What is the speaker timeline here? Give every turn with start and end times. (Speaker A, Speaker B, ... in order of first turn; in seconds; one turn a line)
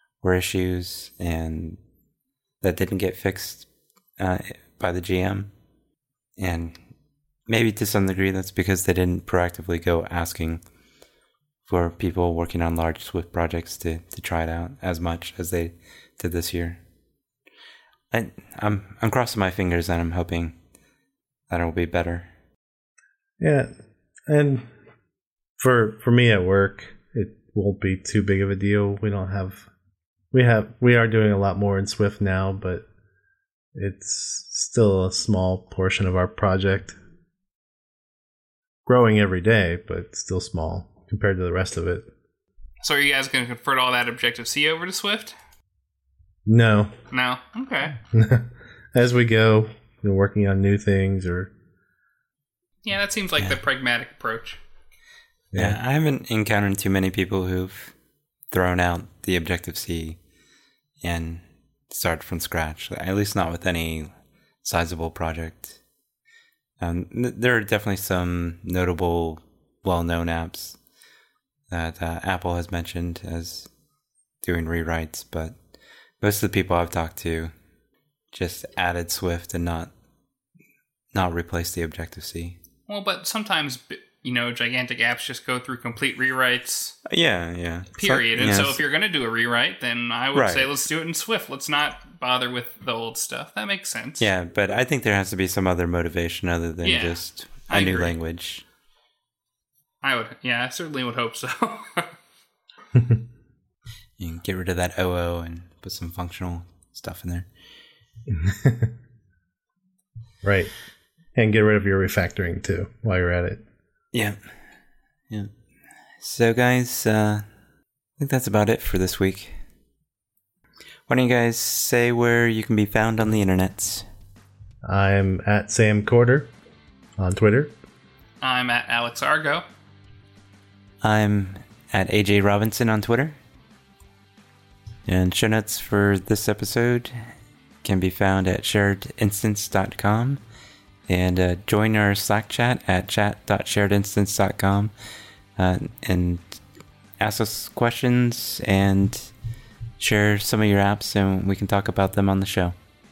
Speaker A: 0.2-1.8
Speaker A: 2.6-5.5
Speaker A: 6.4-6.8
Speaker A: 7.5-10.6
Speaker A: 11.7-16.8
Speaker A: 18.1-20.6
Speaker A: 21.5-22.3
Speaker B: 23.4-23.7
Speaker B: 24.3-24.6
Speaker B: 25.6-29.7
Speaker B: 30.3-32.9
Speaker B: 33.8-37.0
Speaker B: 38.9-42.1
Speaker C: 42.8-45.4
Speaker B: 46.5-46.9
Speaker C: 47.1-48.0
Speaker B: 48.1-51.5
Speaker C: 52.9-54.6
Speaker B: 55.5-55.8
Speaker A: 55.5-57.9
Speaker A: 58.5-60.2
Speaker A: 61.0-64.1
Speaker A: 64.6-65.8
Speaker A: 66.8-70.8
Speaker A: 71.7-73.7
Speaker A: 74.4-75.6
Speaker A: 76.2-77.5
Speaker A: 78.3-79.9
Speaker A: 81.1-82.6
Speaker C: 82.9-87.0
Speaker A: 87.1-88.8
Speaker C: 87.9-94.3
Speaker A: 90.3-90.7
Speaker A: 94.2-98.6
Speaker C: 96.8-98.1
Speaker C: 100.0-102.2
Speaker A: 104.2-107.5
Speaker B: 108.3-108.9
Speaker B: 110.4-110.7
Speaker B: 111.3-113.6
Speaker A: 114.1-114.6
Speaker A: 116.2-117.5
Speaker A: 118.2-119.6
Speaker A: 121.1-124.1
Speaker B: 124.8-126.5
Speaker B: 127.2-127.7
Speaker C: 128.4-129.6
Speaker A: 131.0-133.4
Speaker A: 135.1-137.3
Speaker A: 137.8-140.4
Speaker A: 141.1-144.9
Speaker A: 145.6-146.6
Speaker A: 147.2-149.3
Speaker A: 150.0-152.8